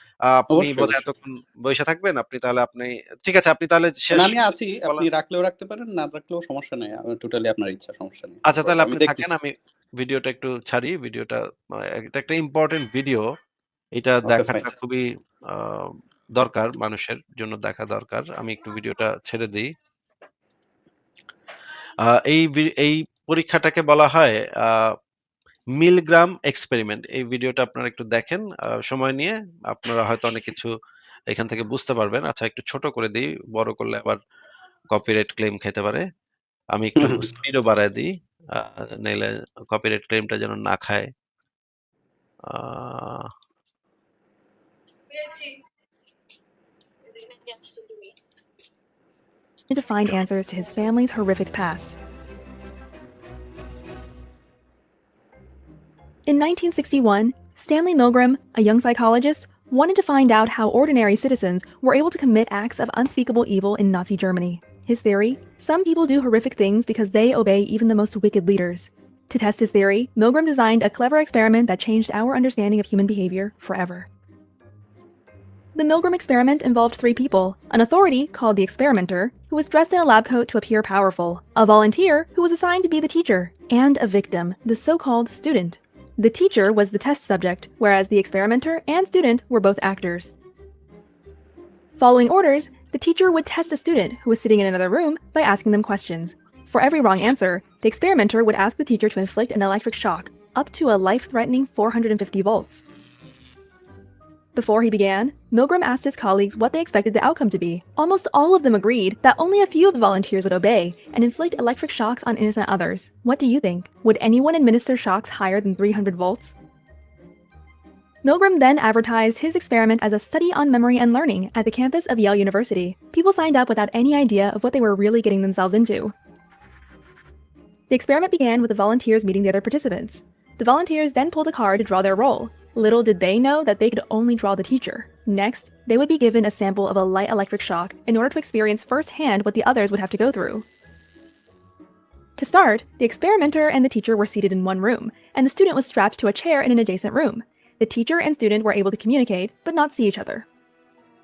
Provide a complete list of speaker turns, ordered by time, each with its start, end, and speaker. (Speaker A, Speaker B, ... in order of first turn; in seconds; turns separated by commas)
Speaker A: 0.3-4.3, Speaker B: 0.5-1.0, Speaker B: 4.1-9.3, Speaker A: 8.5-13.3, Speaker A: 14.0-19.7, Speaker B: 14.3-14.7, Speaker A: 22.0-24.9, Speaker A: 25.8-30.7, Speaker A: 31.3-34.2, Speaker A: 34.9-36.1, Speaker A: 36.7-41.1, Speaker B: 37.0-37.2, Speaker A: 42.4-43.3, Speaker C: 49.7-52.0, Speaker C: 56.3-74.1, Speaker C: 75.8-90.3, Speaker C: 92.0-102.8, Speaker C: 104.5-116.5, Speaker C: 118.2-126.1, Speaker C: 127.9-140.7, Speaker C: 142.4-150.5